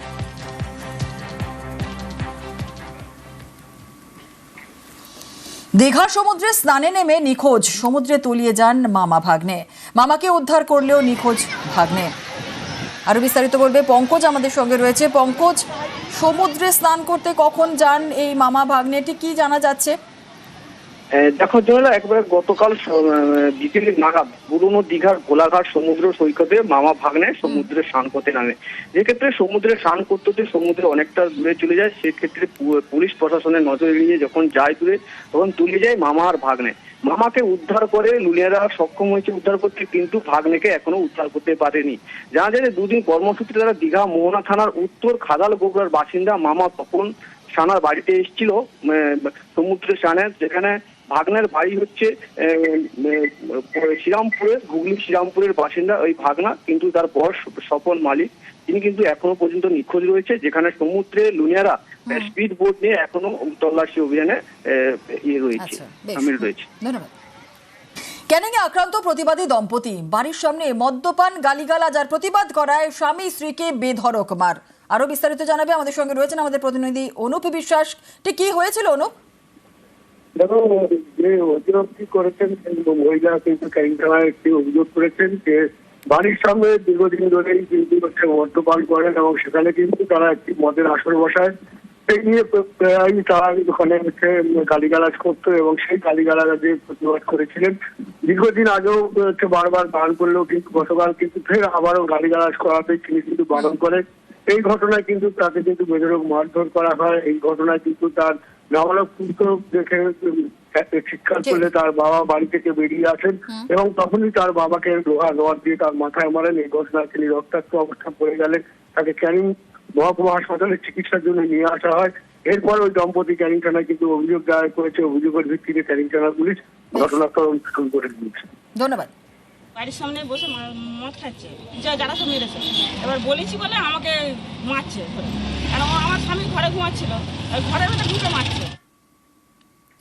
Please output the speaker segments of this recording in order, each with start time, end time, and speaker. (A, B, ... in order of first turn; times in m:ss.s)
0:05.8-0:12.1 A
0:13.1-0:20.0 A
0:21.2-1:06.7 B
1:05.6-1:07.1 A
1:08.3-1:19.1 A
1:20.4-1:31.5 C
1:32.1-2:08.5 C
2:06.9-2:07.2 A
2:08.8-2:09.1 A
2:09.8-2:18.7 D